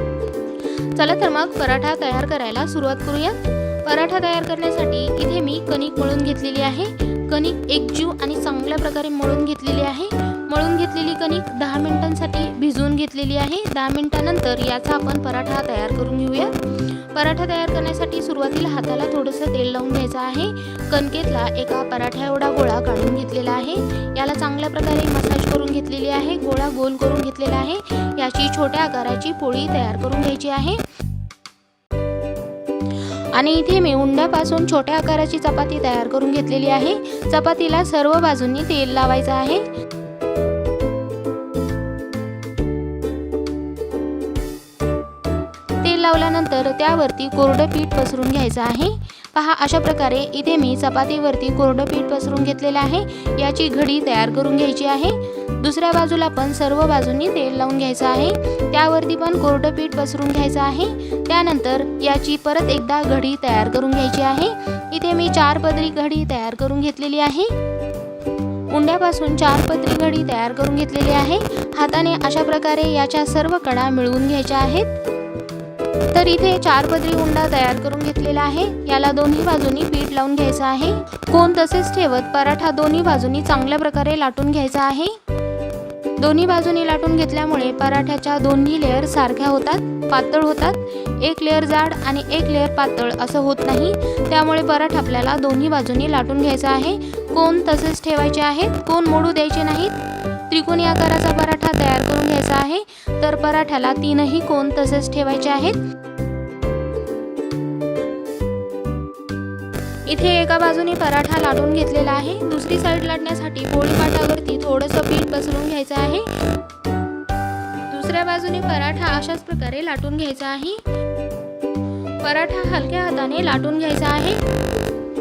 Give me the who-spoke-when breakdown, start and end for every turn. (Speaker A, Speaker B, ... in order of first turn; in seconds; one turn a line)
Speaker A: 0.9-16.6
Speaker A: 17.1-30.8
Speaker A: 33.3-39.6
Speaker A: 45.8-67.5
Speaker A: 68.7-75.0
Speaker A: 76.1-85.2
Speaker A: 86.2-100.0
Speaker A: 100.5-105.8
Speaker A: 110.1-116.3
Speaker A: 117.9-120.8
Speaker A: 122.2-124.4